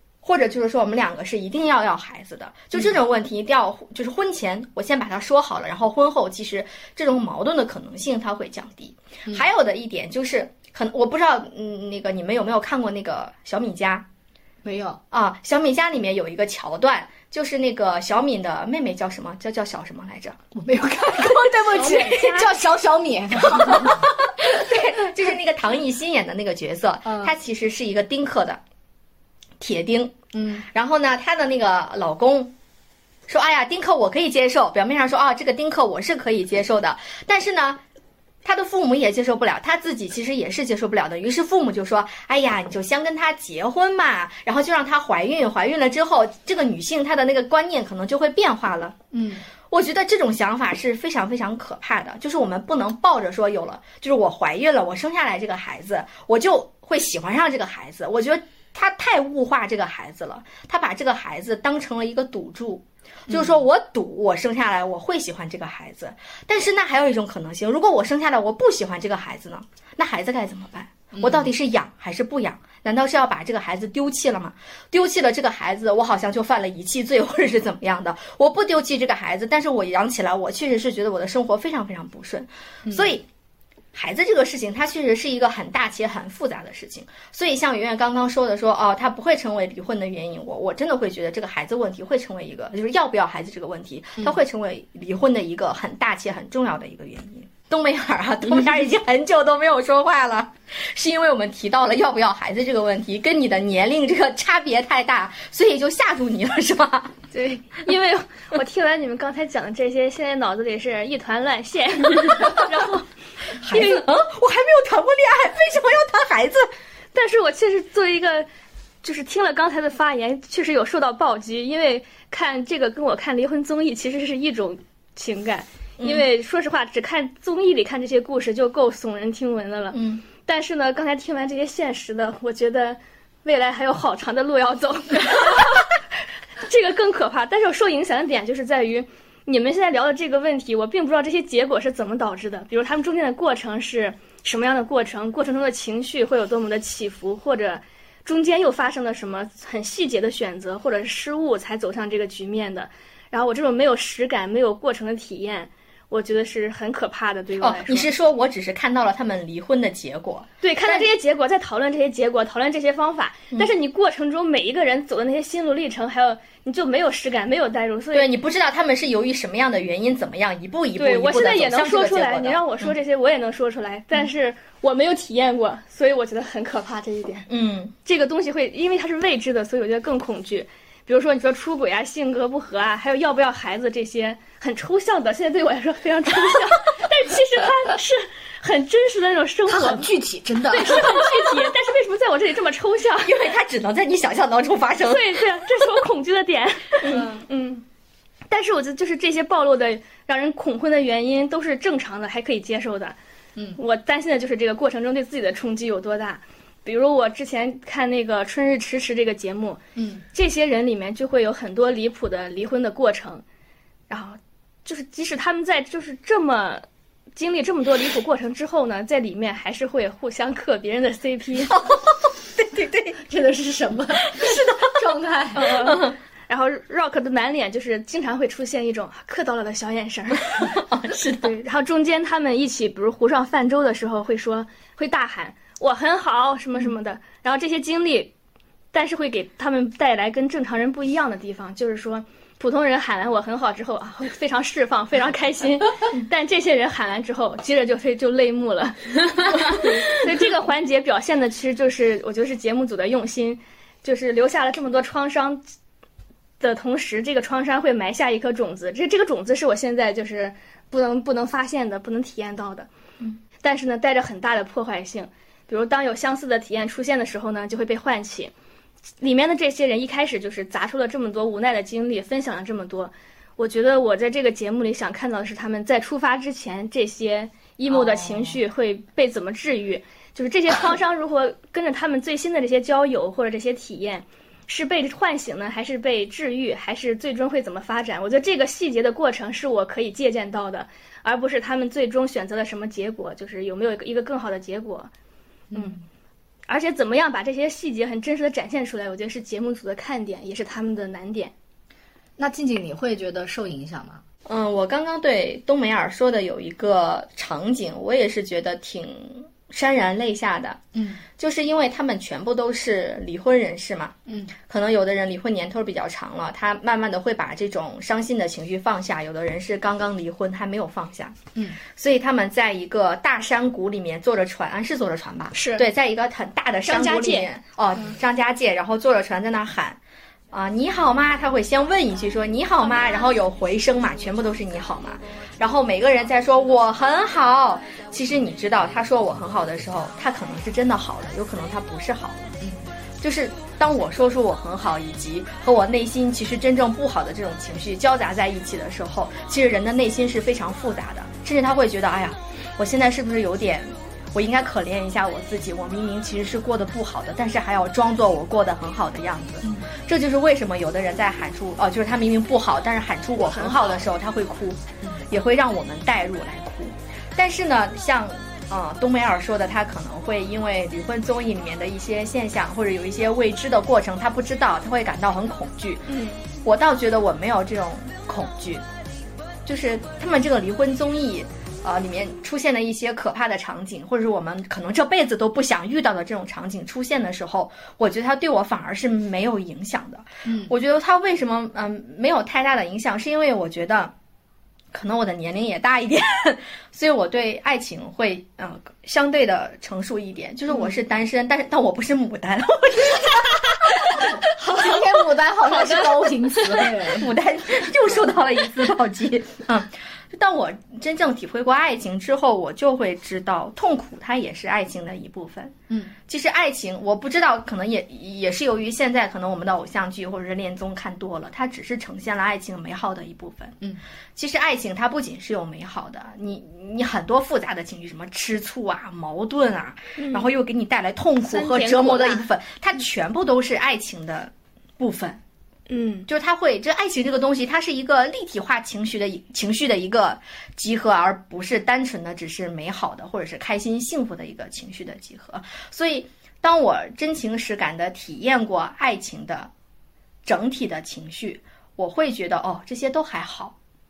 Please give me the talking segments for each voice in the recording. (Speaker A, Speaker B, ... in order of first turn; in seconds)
Speaker A: 0.2-14.1, 15.1-20.4, 21.2-22.6, 23.6-28.6, 29.6-30.2, 30.7-32.5, 33.3-37.8, 38.4-49.0, 49.7-83.2, 83.9-107.2, 113.6-116.7, 126.0-126.2, 129.9-130.2, 157.6-161.1, 168.1-172.9, 177.5-177.9, 193.2-195.4, 221.7-223.2, 224.4-224.8, 225.7-226.2, 230.5-231.5, 304.4-310.8, 311.4-314.1, 314.7-330.0, 330.5-342.5, 343.2-378.8, 379.6-394.1, 394.9-405.0, 405.7-415.7, 416.3-423.8, 424.4-435.4, 436.3-449.7, 450.4-453.7
Speaker B: 14.6-15.0, 20.5-24.9, 27.0-27.3, 30.3-30.7, 49.1-49.4, 63.3-63.6, 71.1-71.5, 82.8-83.1, 189.7-191.6, 209.9-210.2, 223.2-225.7, 295.7-296.0, 302.4-304.2, 310.9-311.2, 314.2-314.5, 342.6-342.9, 359.6-359.9, 390.4-390.7, 404.4-407.3, 415.9-416.1
Speaker C: 107.3-114.0, 117.1-118.5, 119.0-135.9, 136.6-158.1, 160.6-168.3, 170.9-177.5, 178.0-190.1, 190.7-193.3, 195.1-197.8, 198.5-203.2, 203.8-209.8, 210.3-213.4, 214.1-216.8, 217.3-221.7, 225.5-230.8, 231.3-238.3, 238.9-255.6, 256.6-262.9, 263.6-268.5, 269.2-295.1, 296.7-301.5, 325.5-325.9, 326.8-327.5, 363.5-363.9, 376.1-376.4, 430.2-430.5, 431.4-432.5, 435.9-436.3